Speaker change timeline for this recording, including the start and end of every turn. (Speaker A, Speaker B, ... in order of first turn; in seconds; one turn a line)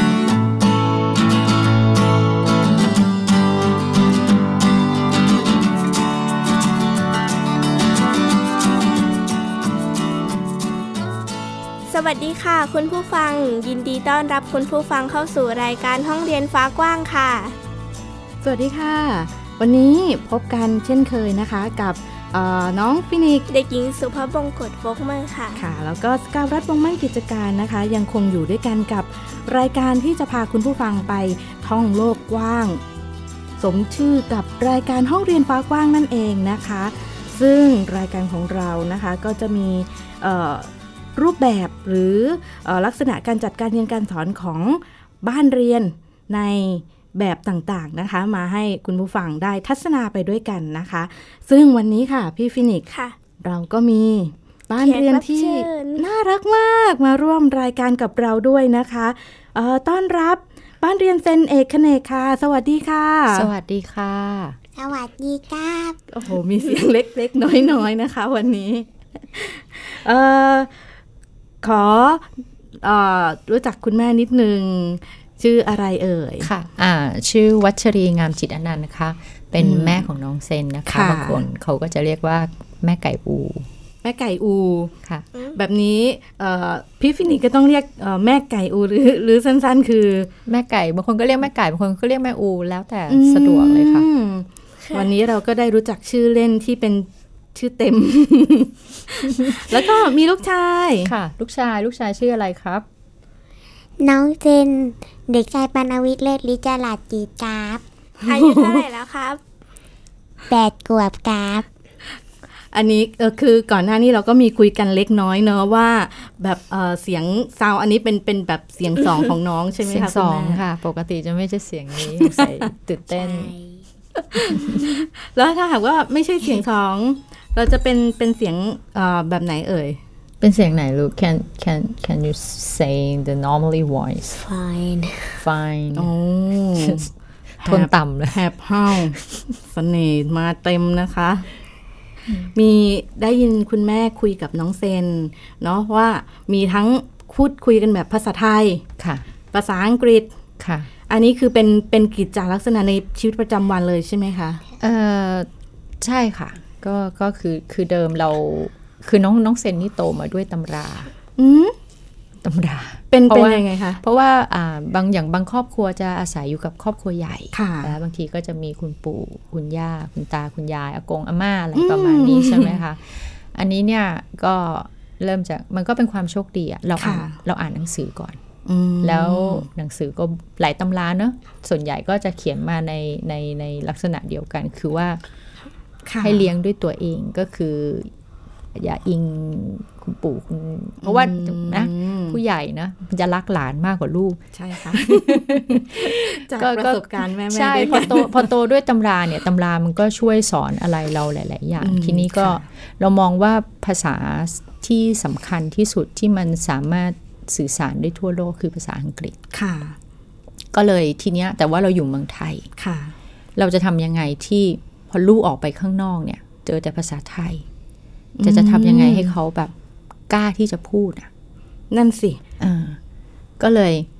Speaker A: 11.9-17.6
Speaker B: 18.4-23.5
Speaker A: 23.5-25.6
Speaker B: 25.6-32.8
Speaker B: 33.6-63.5
Speaker A: 54.8-56.0
Speaker C: 63.3-64.6
Speaker D: 64.7-66.0
Speaker B: 66.1-70.7
Speaker B: 71.6-72.3
Speaker B: 72.8-76.5
Speaker C: 76.4-83.7
Speaker B: 79.6-80.0
Speaker B: 80.9-81.4
Speaker B: 84.0-84.9
Speaker B: 85.5-90.3
Speaker C: 90.5-94.1
Speaker B: 93.1-101.1
Speaker C: 99.4-99.7
Speaker C: 101.0-102.8
Speaker D: 104.0-107.8
Speaker B: 108.2-108.8
Speaker A: 108.2-109.4
Speaker D: 110.5-111.6
Speaker B: 112.7-120.6
Speaker C: 119.8-123.5
Speaker B: 122.0-122.7
Speaker D: 123.1-123.8
Speaker B: 124.3-130.0
Speaker C: 124.5-124.7
Speaker C: 130.4-134.4
Speaker D: 134.4-135.4
Speaker C: 135.4-136.1
Speaker B: 135.9-137.1
Speaker C: 136.8-137.1
Speaker C: 137.6-138.4
Speaker B: 137.6-141.5
Speaker B: 142.5-148.8
Speaker C: 149.0-149.2
Speaker B: 149.5-150.3
Speaker C: 150.6-150.9
Speaker B: 151.1-154.6
Speaker C: 154.8-155.5
Speaker C: 156.0-161.1
Speaker B: 161.4-161.7
Speaker C: 162.4-178.4
Speaker B: 163.1-164.0
Speaker B: 167.5-167.9
Speaker B: 171.7-172.8
Speaker B: 177.0-177.3
Speaker B: 178.6-179.7
Speaker C: 179.0-185.2
Speaker B: 186.0-186.5
Speaker C: 186.2-188.1
Speaker C: 188.7-209.3
Speaker B: 191.0-192.4
Speaker B: 194.5-198.5
Speaker B: 201.8-202.6
Speaker B: 209.5-210.0
Speaker C: 210.7-212.7
Speaker B: 212.8-213.1
Speaker C: 213.6-217.6
Speaker B: 218.3-219.3
Speaker C: 218.4-219.7
Speaker C: 220.3-221.3
Speaker B: 221.9-222.4
Speaker C: 222.6-223.0
Speaker C: 223.6-224.1